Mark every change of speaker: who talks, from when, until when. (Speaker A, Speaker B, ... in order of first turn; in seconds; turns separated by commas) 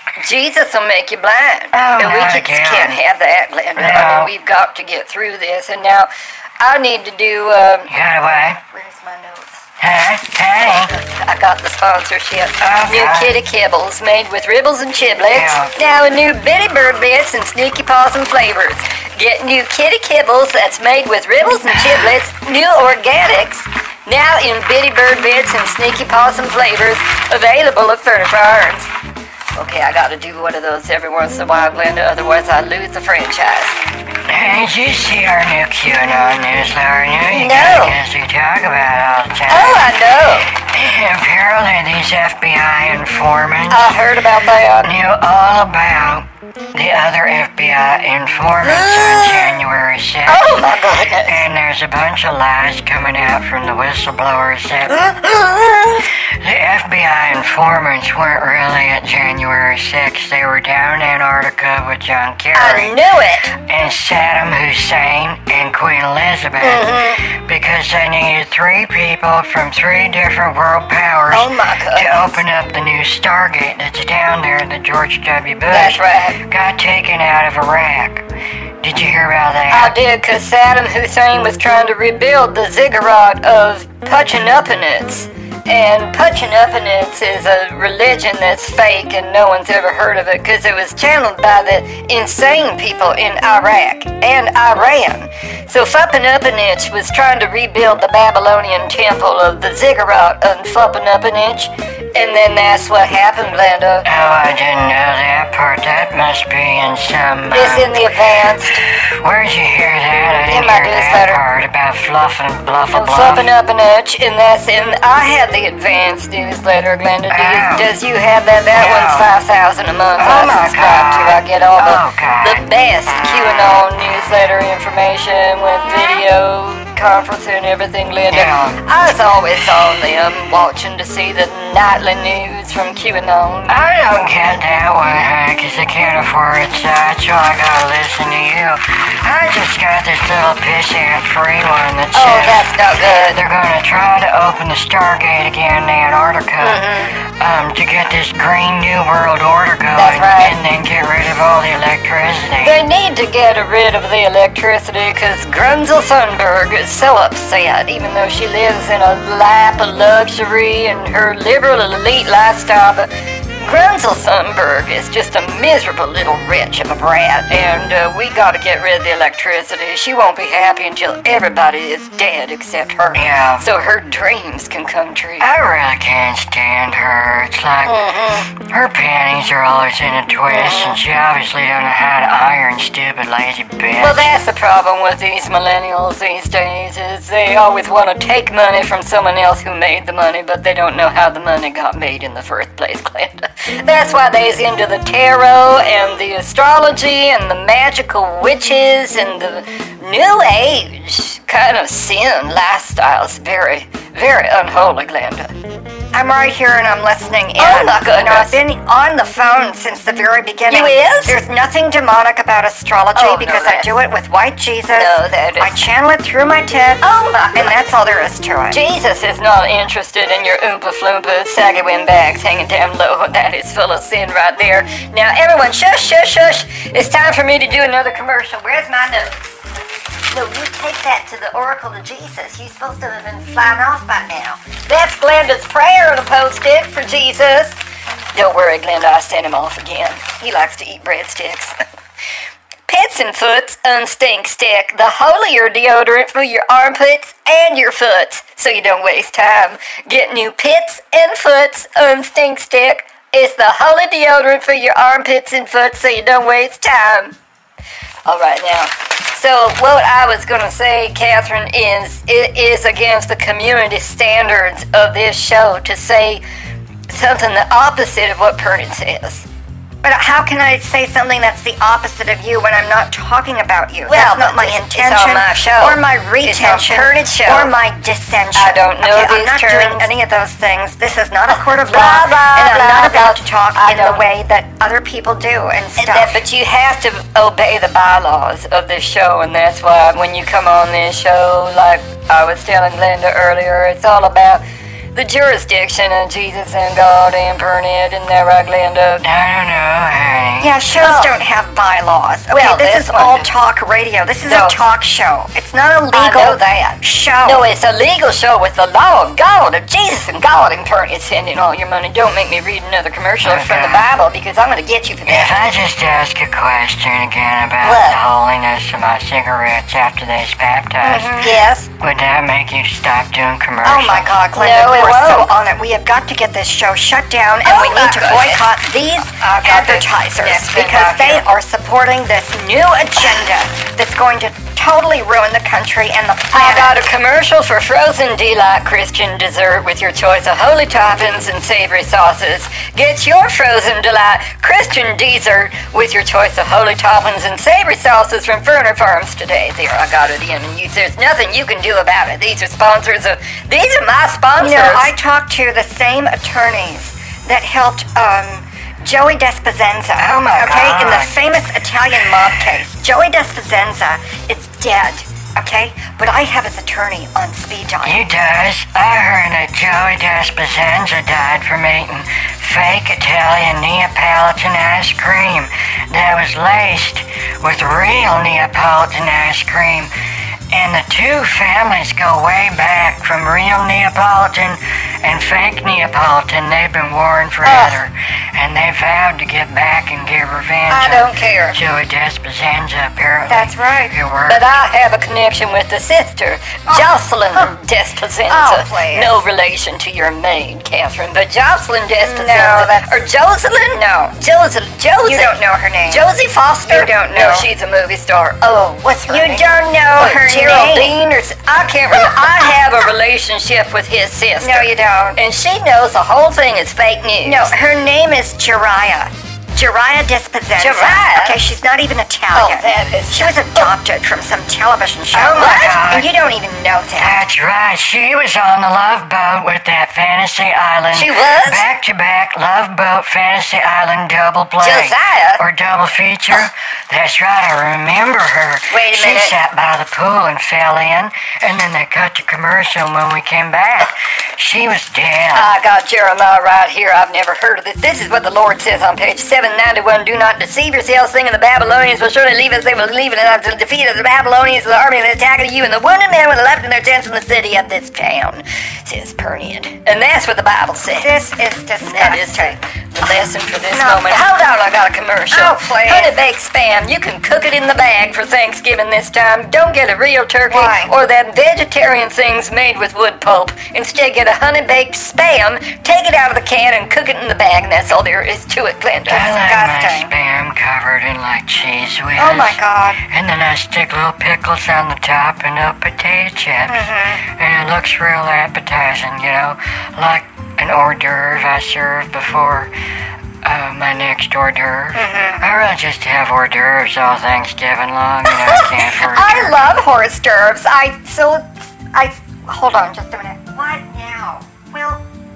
Speaker A: 0.2-7.9, Speaker B: 1.7-3.0, Speaker B: 3.8-4.3, Speaker B: 7.9-8.6, Speaker C: 8.2-9.6, Speaker B: 9.8-10.9, Speaker A: 10.6-28.9, Speaker B: 12.6-13.4, Speaker B: 15.3-15.7, Speaker A: 29.5-33.8, Speaker B: 34.3-39.9, Speaker A: 37.3-38.0, Speaker A: 39.5-40.5, Speaker B: 40.6-44.0, Speaker A: 43.7-44.9, Speaker B: 44.8-50.6, Speaker A: 48.7-49.0, Speaker A: 50.3-51.4, Speaker B: 51.2-55.2, Speaker A: 55.2-55.6, Speaker B: 56.1-62.9, Speaker A: 62.5-63.5, Speaker B: 63.5-78.2, Speaker C: 66.6-67.2, Speaker A: 71.3-72.4, Speaker A: 75.7-76.4, Speaker B: 78.8-79.9, Speaker A: 79.7-104.1, Speaker B: 104.0-108.0, Speaker A: 107.5-108.8, Speaker B: 108.8-113.5, Speaker A: 110.5-111.4, Speaker A: 112.9-133.8, Speaker B: 117.3-117.9, Speaker B: 118.7-119.3, Speaker B: 120.2-122.6, Speaker B: 128.3-128.8, Speaker B: 133.7-152.8, Speaker A: 142.1-143.4, Speaker C: 146.6-147.0, Speaker A: 149.9-150.6, Speaker A: 152.6-163.1, Speaker A: 163.6-175.5, Speaker B: 173.1-173.7, Speaker B: 175.4-184.3, Speaker C: 177.9-178.4, Speaker C: 180.5-180.9, Speaker A: 183.9-205.5, Speaker C: 206.1-218.8, Speaker A: 207.6-208.6, Speaker A: 210.7-211.4, Speaker A: 213.1-214.0, Speaker A: 214.9-215.9, Speaker A: 217.0-217.8, Speaker A: 218.7-229.6, Speaker A: 230.3-237.8, Speaker C: 230.5-231.1, Speaker C: 233.7-234.4, Speaker A: 238.3-241.8, Speaker A: 242.9-257.3, Speaker A: 258.2-266.4, Speaker A: 267.1-269.4, Speaker C: 270.0-286.4, Speaker A: 274.1-277.7, Speaker A: 278.5-280.1, Speaker A: 281.5-284.2, Speaker A: 286.0-299.2, Speaker B: 299.2-300.8, Speaker C: 300.6-307.7, Speaker A: 301.0-301.3, Speaker A: 302.5-303.5, Speaker A: 304.4-304.8, Speaker A: 306.1-315.5, Speaker B: 313.4-314.1, Speaker B: 315.3-324.3, Speaker C: 317.8-318.2, Speaker C: 321.0-321.8, Speaker A: 321.4-321.8, Speaker C: 323.8-337.0, Speaker A: 324.5-325.5, Speaker A: 327.6-331.4, Speaker A: 336.5-355.1, Speaker C: 354.6-368.2, Speaker B: 360.1-361.3, Speaker B: 368.0-380.1, Speaker B: 380.7-394.8, Speaker C: 387.6-387.9, Speaker A: 390.9-391.8, Speaker C: 393.5-394.2, Speaker A: 394.5-405.5, Speaker C: 398.5-399.4, Speaker C: 402.2-403.2, Speaker C: 405.2-407.7, Speaker A: 406.1-417.7, Speaker C: 408.8-411.2, Speaker C: 414.6-415.4, Speaker C: 417.4-427.4, Speaker A: 420.8-421.7, Speaker A: 422.5-423.9, Speaker A: 425.3-426.0, Speaker B: 425.5-426.3, Speaker B: 427.2-445.7, Speaker A: 431.1-431.8, Speaker A: 434.8-435.6, Speaker A: 439.1-439.6, Speaker A: 445.5-461.3, Speaker C: 461.1-462.8, Speaker A: 462.0-479.5, Speaker C: 463.9-464.5, Speaker C: 465.5-466.4, Speaker C: 470.7-471.1, Speaker B: 479.3-492.9, Speaker C: 479.5-480.3, Speaker C: 482.4-483.2, Speaker C: 486.9-487.4, Speaker B: 493.6-499.8, Speaker C: 495.1-495.6, Speaker C: 498.5-505.2